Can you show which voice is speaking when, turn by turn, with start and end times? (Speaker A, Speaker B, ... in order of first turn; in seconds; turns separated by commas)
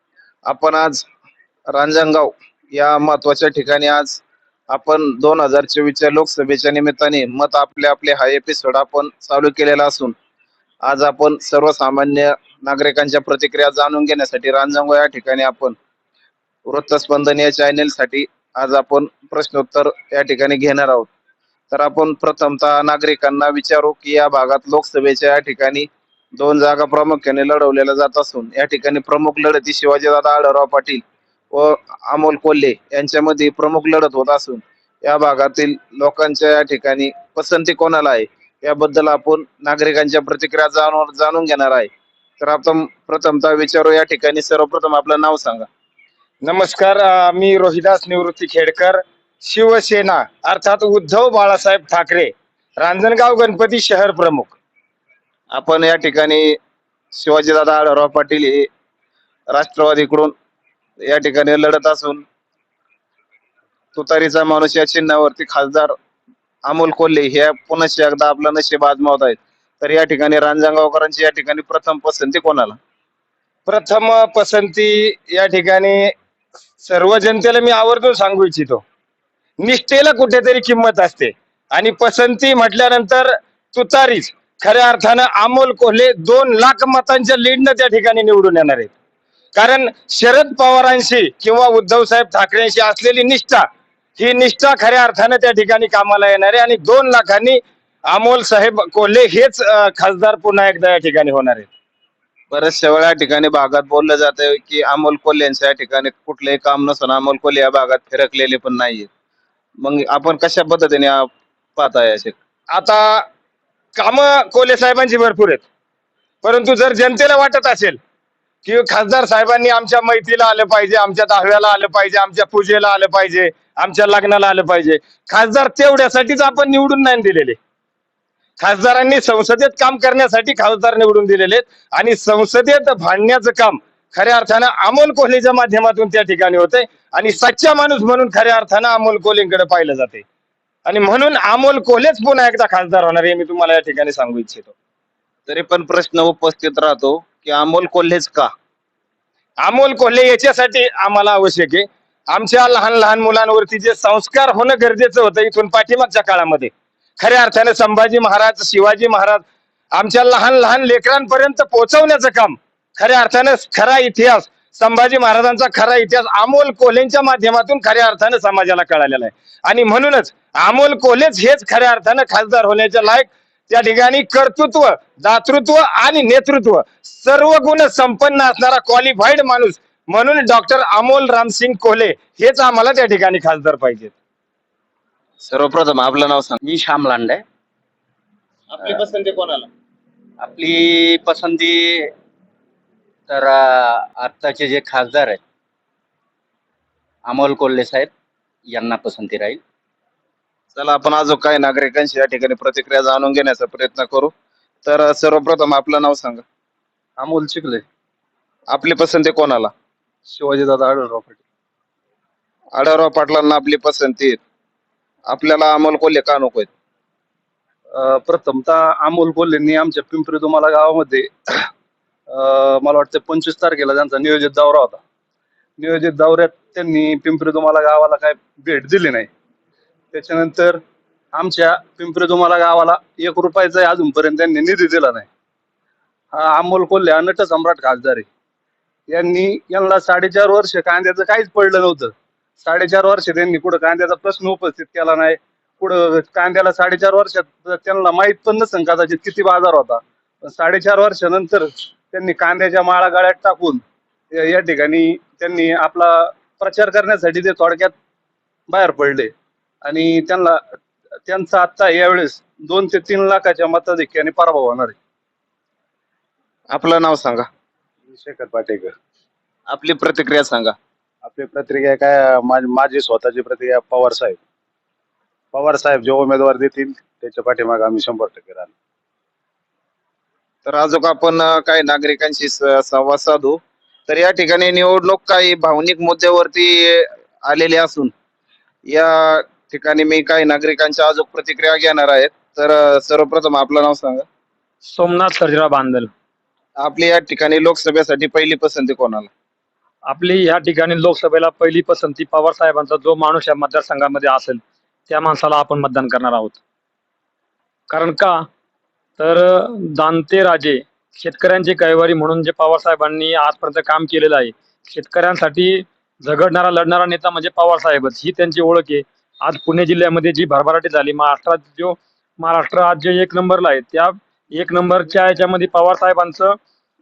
Speaker A: 0.5-1.1, Speaker A: 1.7-10.1, Speaker A: 10.8-15.8, Speaker A: 16.7-21.1, Speaker A: 21.7-45.7, Speaker B: 46.4-54.5, Speaker A: 55.5-56.5, Speaker A: 57.1-58.7, Speaker A: 59.5-60.3, Speaker A: 61.0-62.2, Speaker A: 63.9-65.9, Speaker A: 66.7-72.8, Speaker B: 73.7-76.1, Speaker B: 76.8-78.8, Speaker B: 79.6-88.9, Speaker B: 89.5-93.6, Speaker B: 94.2-101.7, Speaker A: 102.5-109.1, Speaker A: 109.8-112.3, Speaker B: 112.7-113.2, Speaker B: 114.0-115.7, Speaker B: 116.4-118.0, Speaker B: 118.6-127.6, Speaker B: 128.6-140.2, Speaker B: 140.8-144.7, Speaker A: 145.5-148.5, Speaker B: 149.6-184.1, Speaker A: 185.4-186.6, Speaker C: 186.6-187.4, Speaker B: 188.7-189.7, Speaker C: 190.4-192.1, Speaker C: 193.3-195.4, Speaker C: 197.2-198.1, Speaker C: 198.7-199.6, Speaker A: 200.7-204.3, Speaker A: 204.8-206.4, Speaker D: 207.2-207.8, Speaker A: 208.7-209.7, Speaker D: 210.3-211.4, Speaker A: 212.7-214.4, Speaker A: 215.3-216.7, Speaker D: 217.9-221.7, Speaker D: 222.3-225.0, Speaker D: 225.8-229.3, Speaker D: 230.1-230.8, Speaker D: 231.3-235.3, Speaker D: 236.3-238.3, Speaker D: 239.1-257.9, Speaker D: 258.7-259.3, Speaker D: 259.8-260.6, Speaker D: 261.3-264.9, Speaker A: 266.7-267.5, Speaker E: 268.1-268.9, Speaker A: 269.7-270.7, Speaker E: 271.2-274.4, Speaker E: 275.5-278.7, Speaker A: 280.6-288.1, Speaker A: 288.9-294.2, Speaker F: 294.8-296.1, Speaker A: 296.8-299.3, Speaker F: 300.1-306.6, Speaker F: 307.9-308.3, Speaker F: 309.2-326.5